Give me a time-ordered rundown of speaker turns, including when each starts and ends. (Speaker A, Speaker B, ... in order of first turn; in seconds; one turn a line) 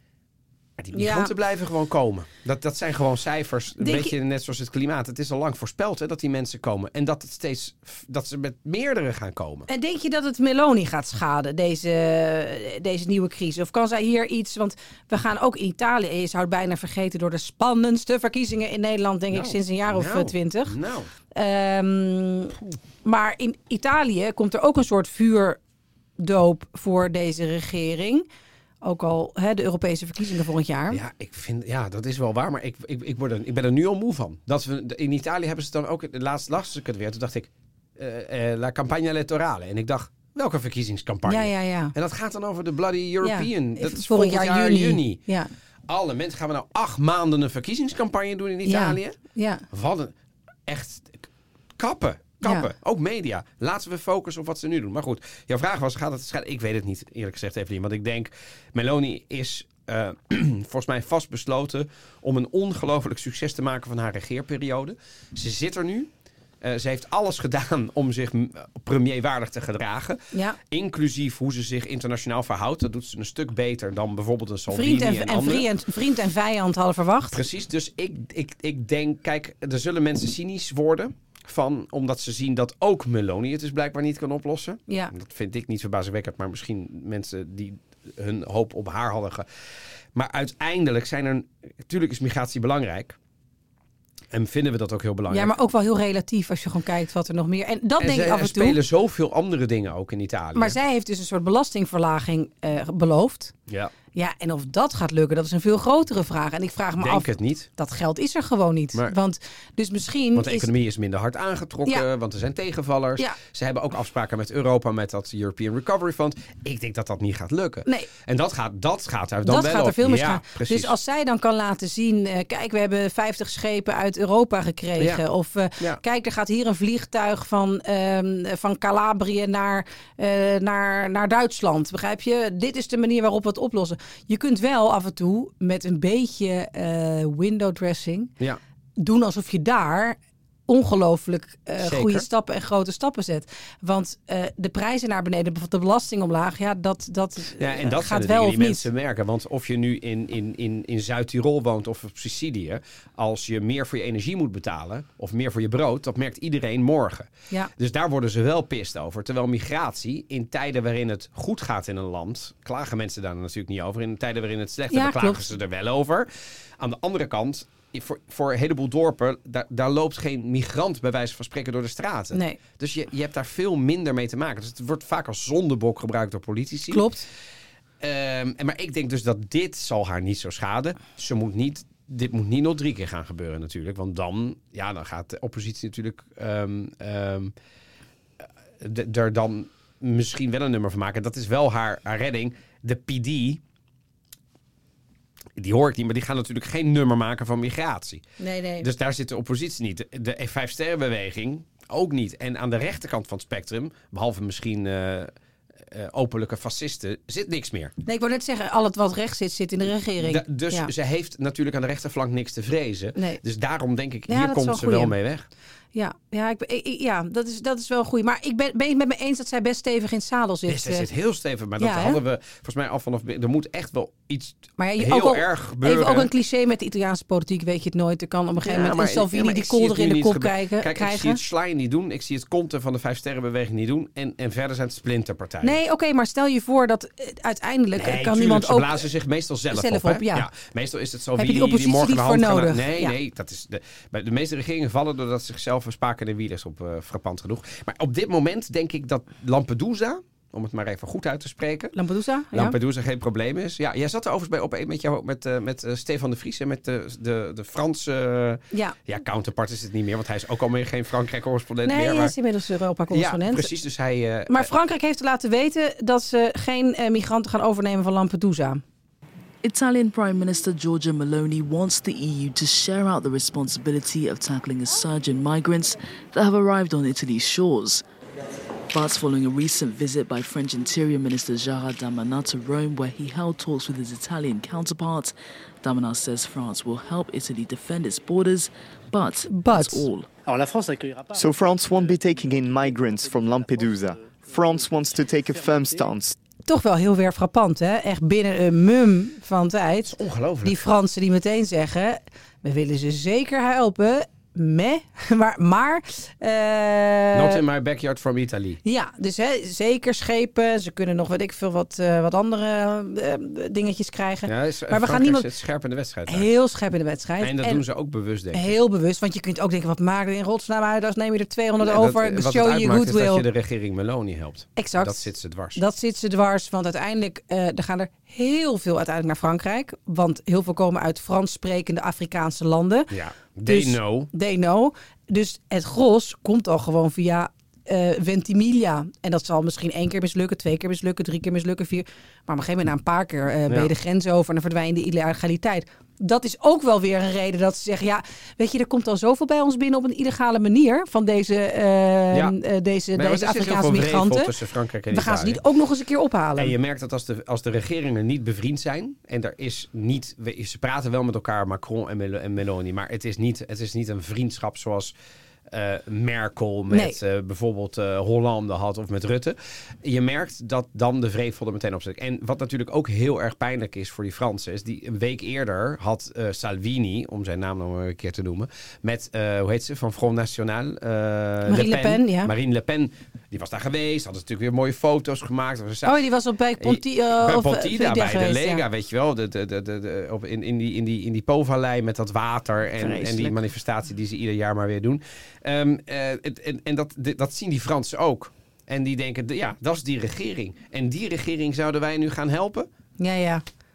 Speaker A: 0.8-9.7
Speaker B: 0.9-1.3
Speaker B: 3.8-4.1
Speaker B: 9.7-20.8
Speaker A: 19.3-21.1
Speaker B: 21.3-25.6
Speaker B: 26.2-28.3
Speaker B: 28.8-31.0
Speaker A: 30.9-45.2
Speaker B: 41.3-41.9
Speaker B: 43.2-45.5
Speaker A: 45.9-49.2
Speaker B: 48.6-49.6
Speaker A: 49.7-50.1
Speaker A: 50.7-51.3
Speaker A: 51.8-66.1
Speaker A: 66.6-75.7
Speaker B: 70.3-70.6
Speaker B: 74.7-77.4
Speaker A: 77.3-89.5
Speaker A: 90.1-93.2
Speaker A: 94.3-95.5
Speaker B: 95.3-98.8
Speaker A: 98.0-100.8
Speaker B: 100.5-103.5
Speaker B: 104.1-110.7
Speaker A: 107.0-107.7
Speaker A: 110.3-121.0
Speaker B: 119.5-138.3
Speaker A: 125.0-125.2
Speaker B: 139.0-140.2
Speaker B: 140.7-148.9
Speaker A: 141.8-142.3
Speaker A: 147.6-166.3
Speaker B: 164.9-165.5
Speaker A: 166.8-177.1
Speaker B: 176.9-177.2
Speaker A: 178.0-187.5
Speaker A: 188.8-193.6
Speaker A: 195.6-198.2
Speaker B: 198.4-198.9
Speaker A: 198.8-205.3
Speaker A: 205.9-207.9
Speaker B: 208.1-210.9
Speaker A: 210.2-215.5
Speaker B: 214.3-215.1
Speaker B: 215.9-221.1
Speaker A: 220.7-226.3
Speaker B: 221.8-222.2
Speaker B: 224.8-231.4
Speaker A: 228.6-235.8
Speaker B: 235.6-239.0
Speaker A: 237.9-252.0
Speaker B: 239.7-240.5
Speaker B: 241.4-243.1
Speaker B: 251.9-252.8
Speaker A: 252.5-262.4
Speaker B: 261.9-263.7
Speaker A: 263.1-264.7
Speaker B: 264.5-268.8
Speaker C: 269.6-278.0
Speaker C: 278.9-290.3
Speaker B: 289.5-290.1
Speaker D: 291.2-296.4
Speaker B: 296.7-307.6
Speaker A: 300.1-300.8
Speaker A: 307.3-308.8
Speaker B: 308.9-315.5
Speaker A: 314.5-316.5
Speaker B: 316.3-317.8
Speaker A: 317.4-318.8
Speaker B: 318.5-323.4
Speaker A: 321.8-325.8
Speaker B: 324.8-333.1
Speaker A: 333.1-334.3
Speaker B: 333.7-354.5
Speaker A: 353.2-355.6
Speaker B: 355.1-356.7
Speaker A: 356.6-365.1
Speaker A: 365.7-386.2
Speaker B: 366.9-367.2
Speaker B: 381.7-382.5
Speaker B: 386.0-388.8
Speaker A: 386.8-402.9
Speaker B: 393.0-393.6
Speaker B: 403.2-403.6